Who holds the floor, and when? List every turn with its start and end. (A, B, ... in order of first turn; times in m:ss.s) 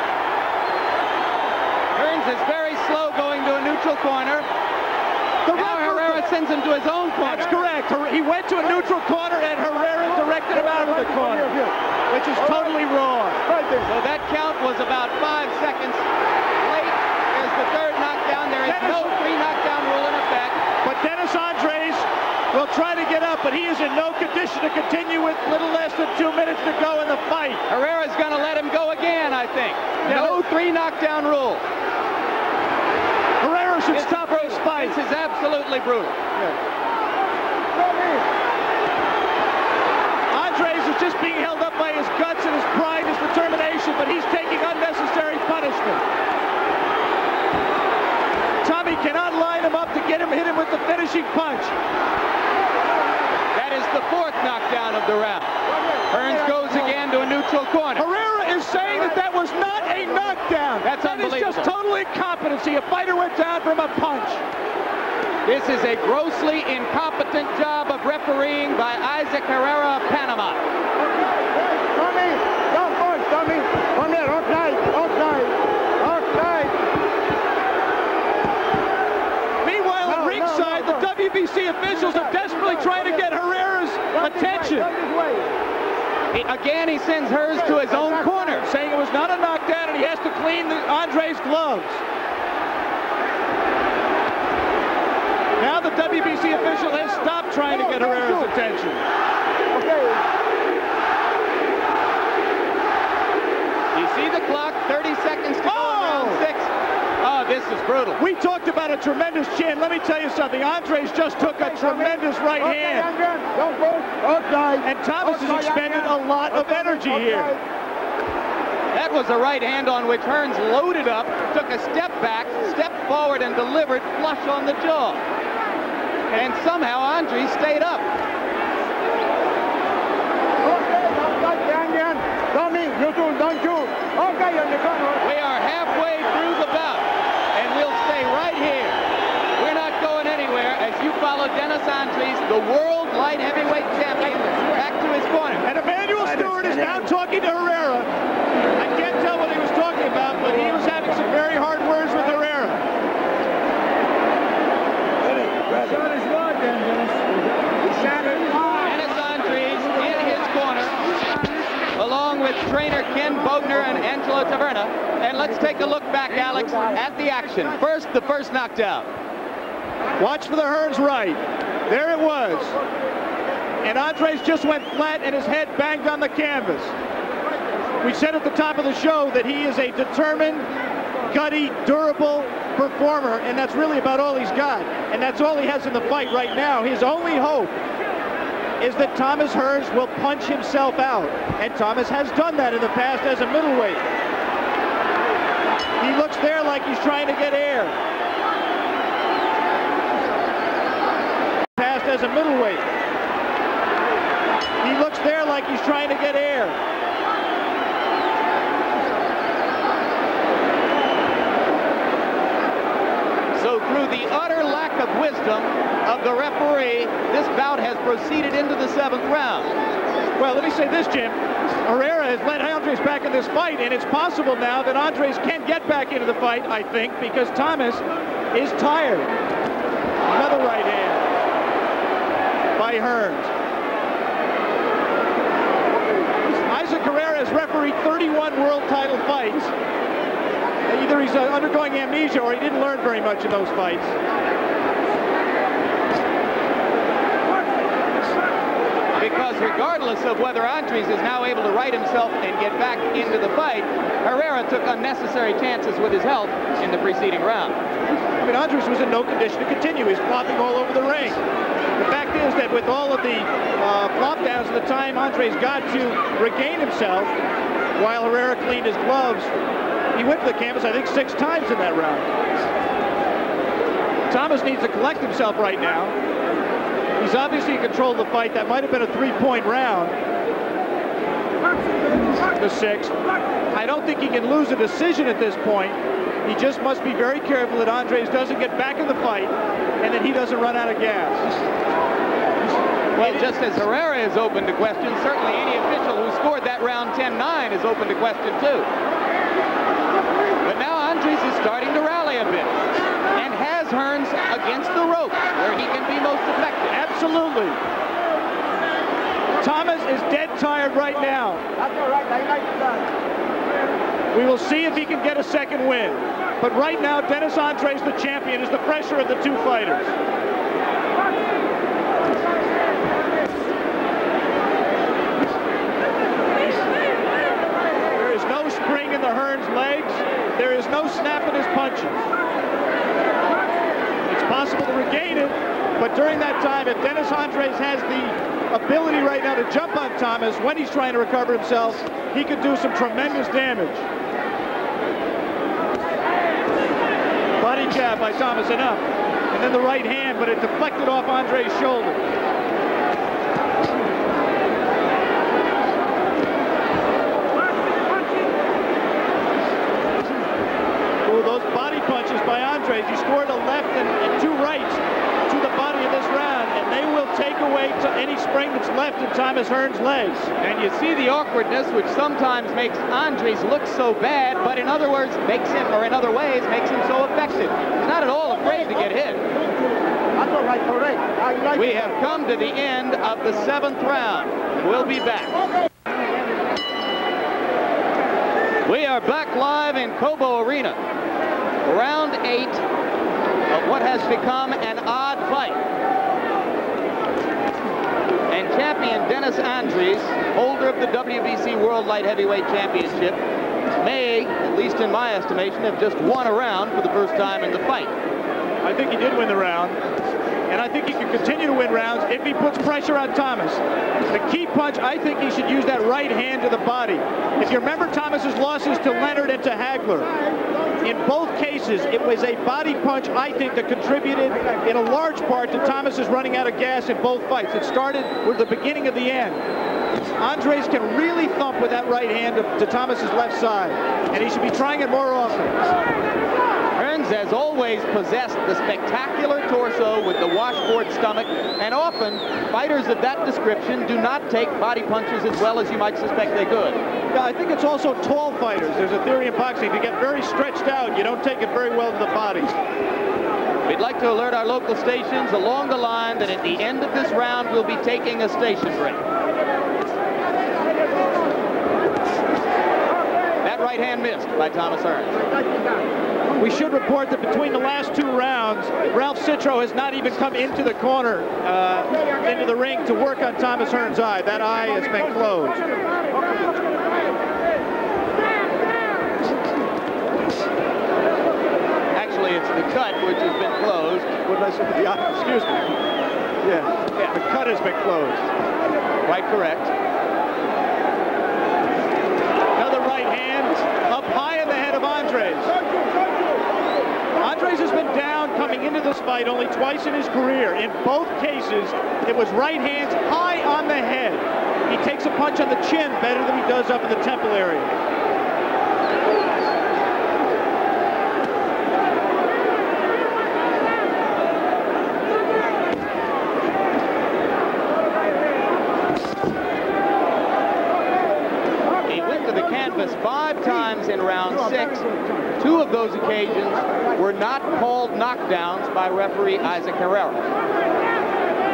0:01.9-0:04.5 A
0:05.5-0:07.5 A
0:05.6-0:06.2 B
0:07.2-0:11.5 C
0:10.3-0:11.7 B
0:12.1-0:13.4 C
0:13.5-0:13.9 B
0:13.8-0:16.0 A
0:16.6-0:20.6 A
0:18.6-0:19.2 C
0:20.8-0:27.6 C
0:27.7-0:31.6 A
0:30.0-0:30.4 C
0:33.4-0:35.0 C
0:33.9-0:36.2 A
0:37.7-0:38.2 B
0:40.3-0:46.0 C
0:48.6-0:51.7 C
0:53.5-0:55.5 A
0:56.1-0:58.0 A
0:56.1-0:56.9 B
0:58.0-1:04.4 C
1:00.8-1:01.7 A
1:05.4-1:10.6 A
1:11.4-1:16.8 B
1:19.6-1:24.9 C
1:20.0-1:21.0 B
1:22.0-1:23.1 B
1:24.1-1:25.6 B
1:26.3-1:28.6 A
1:27.5-1:28.4 B
1:28.4-1:32.0 C
1:35.6-1:39.0 C
1:37.7-1:38.5 B
1:39.7-1:40.2 B
1:43.9-1:48.2 A
1:45.6-1:46.4 C
1:48.2-1:53.1 C
1:51.4-1:57.6 B
1:54.8-1:57.5 C
1:58.9-2:05.2 A
2:06.3-2:08.0 A
2:10.6-2:15.2 B
2:15.2-2:19.0 A
2:19.6-2:25.6 A
2:25.6-2:28.1 C
2:28.8-2:32.8 C
2:38.1-2:38.5 B
2:38.8-2:41.1 A
2:41.9-2:49.1 A
2:50.2-2:52.8 C
2:53.8-2:56.9 C
2:58.0-3:00.7 C
3:01.3-3:07.8 C
3:08.8-3:14.0 C
3:16.0-3:18.0 C
3:21.8-3:22.8 C
3:24.8-3:26.8 C
3:33.5-3:39.7 A
3:40.4-3:49.4 C
3:50.2-3:51.3 C
3:52.7-3:53.5 C
3:56.6-3:59.7 C
4:00.8-4:04.1 C
4:09.1-4:17.8 A
4:18.4-4:21.4 C
4:22.0-4:27.3 C
4:27.9-4:29.5 C
4:30.1-4:32.3 C
4:34.3-4:36.2 C
4:37.2-4:40.2 C
4:42.6-4:43.1 C
4:43.7-4:51.6 C
4:53.1-4:58.9 A
4:53.2-4:53.5 C
5:00.6-5:02.8 A
5:03.3-5:07.0 A
5:06.9-5:07.8 C
5:09.6-5:11.6 C
5:11.8-5:13.0 B
5:14.3-5:20.1 C
5:28.1-5:32.2 C
5:34.2-5:44.0 C
5:47.6-5:52.3 C
6:01.2-6:10.5 C
6:10.6-6:19.4 A
6:20.3-6:22.2 B
6:21.7-6:25.6 A
6:28.8-6:31.0 A
6:31.8-6:32.8 A
6:33.7-6:35.8 A
6:38.5-6:43.4 A
6:44.0-6:48.1 A
6:48.8-6:50.0 C
6:50.7-7:00.3 C
7:01.0-7:09.6 C
7:10.4-7:15.8 C
7:16.9-7:27.0 A
7:27.3-7:32.7 C
7:33.8-7:39.2 A
7:43.6-7:45.4 A
7:46.6-7:55.8 C
8:02.1-8:04.4 A
8:04.4-8:05.9 C
8:06.6-8:08.5 C
8:09.2-8:09.9 A
8:12.7-8:15.7 C
8:17.4-8:28.0 C
8:42.1-8:45.1 A
8:45.6-8:50.5 A